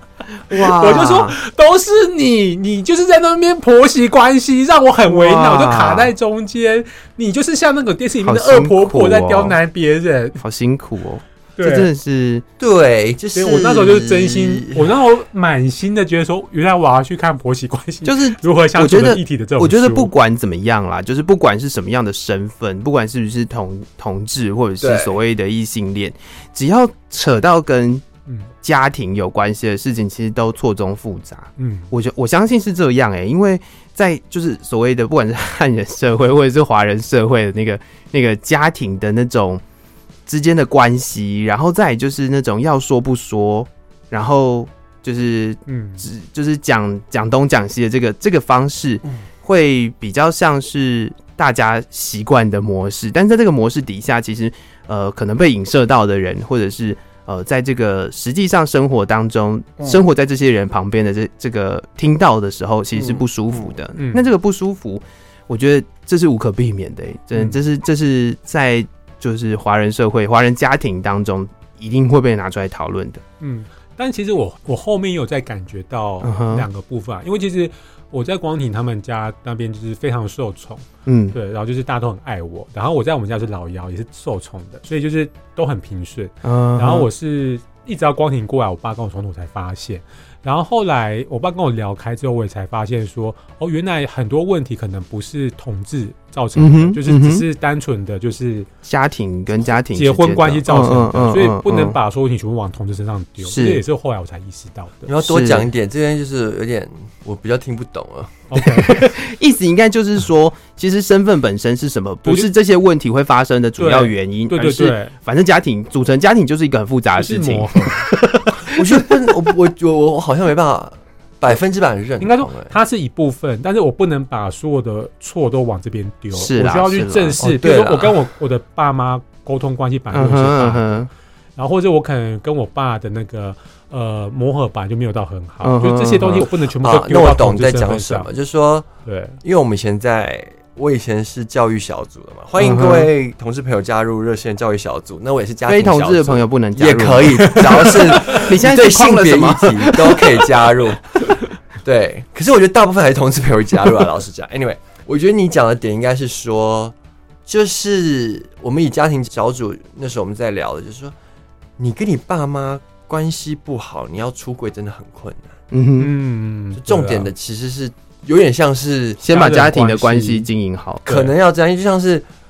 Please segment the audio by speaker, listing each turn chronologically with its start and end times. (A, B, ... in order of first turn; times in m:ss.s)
0:00.5-0:10.4 A
0:00.5-0:01.4 B
0:05.1-0:06.1 B
0:08.2-0:09.6 B
0:10.4-0:12.4 B
0:11.6-0:11.9 A
0:12.6-0:15.0 C
0:13.3-0:20.1 A
0:18.0-0:28.0 B
0:24.8-0:25.2 C
0:28.6-0:39.6 B
0:31.6-0:31.9 A
0:40.3-1:13.2 B
0:45.7-0:46.1 A
1:04.0-1:04.2 A
1:13.4-1:38.7 A
1:16.2-1:16.7 B
1:21.1-1:21.4 B
1:26.4-1:27.1 B
1:36.6-1:37.4 B
1:38.8-1:42.0 B
1:39.9-1:45.1 A
1:43.4-1:43.8 B
1:45.1-1:48.4 C
1:45.2-1:45.7 B
1:48.5-1:49.2 A
1:48.6-1:59.0 B
1:53.8-1:55.2 A
1:57.2-1:58.1 A
1:58.7-2:02.8 C
2:02.2-2:11.0 A
2:06.3-2:07.4 B
2:07.4-2:08.2 C
2:10.1-2:11.1 B
2:11.6-2:18.3 A
2:15.6-2:16.5 B
2:16.8-2:18.9 C
2:19.1-2:19.4 A
2:19.4-2:31.1 C
2:22.6-2:23.1 B
2:25.7-2:30.7 B
2:27.4-2:28.5 A
2:31.8-2:36.9 C
2:37.5-2:41.1 C
2:41.8-2:45.6 C
2:45.7-2:46.1 B
2:46.0-2:47.3 A
2:46.8-2:49.2 C
2:49.2-2:51.1 B
2:49.3-2:50.5 A
2:51.1-2:52.2 C